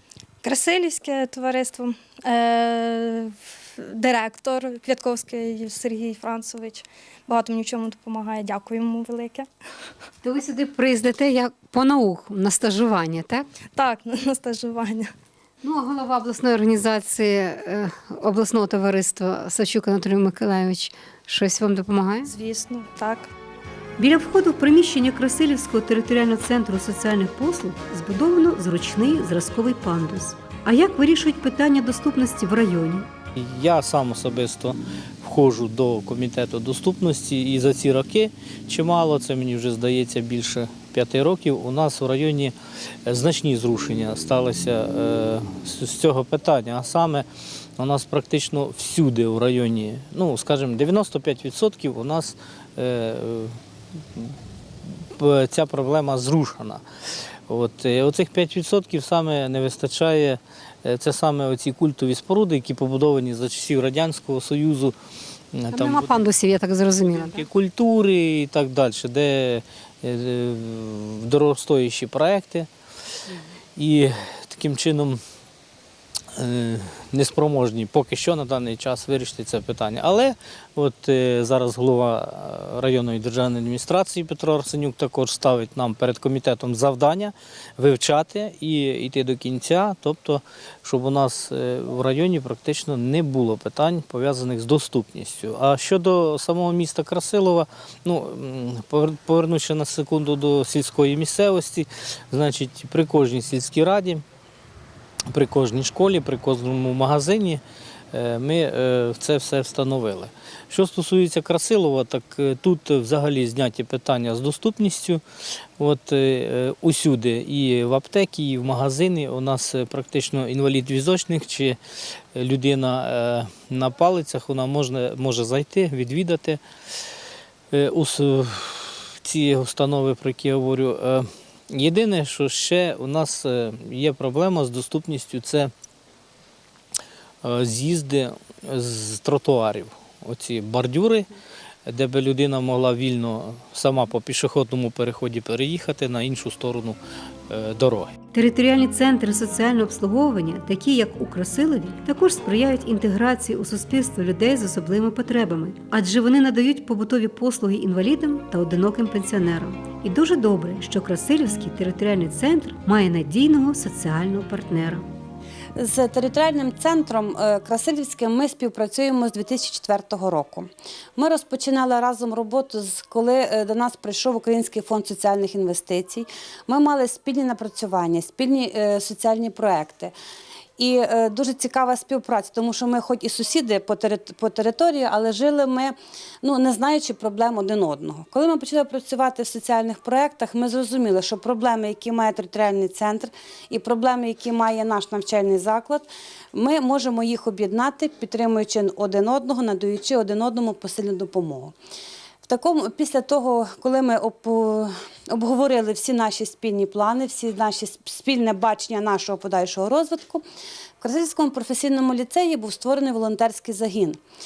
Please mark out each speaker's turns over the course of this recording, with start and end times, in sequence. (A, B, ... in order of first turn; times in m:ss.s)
0:00.4-0:09.5 A
0:10.3-0:13.4 B
0:10.9-0:13.4 C
0:13.7-0:15.1 A
0:15.7-0:22.1 C
0:16.6-0:17.8 B
0:18.3-0:20.6 B
0:21.3-0:22.2 B
0:22.2-0:23.3 A
0:24.0-0:33.1 C
0:33.4-0:42.5 D
0:43.1-0:47.3 D
0:47.8-0:53.5 D
0:55.2-0:56.8 D
0:57.5-1:05.0 D
1:05.5-1:06.3 D
1:05.7-1:07.4 C
1:07.1-1:12.7 D
1:13.8-1:15.2 D
1:16.4-1:44.2 D
1:45.3-1:47.6 D
1:48.1-1:55.2 D
1:55.8-2:01.8 D
2:02.4-2:06.6 D
2:07.7-2:15.7 D
2:17.4-2:21.3 D
2:21.9-2:27.0 D
2:27.5-2:28.1 D
2:28.3-2:45.1 C
2:45.8-3:00.1 E
3:00.8-3:21.8 E
3:22.4-3:30.4 E
3:31.0-3:34.2 E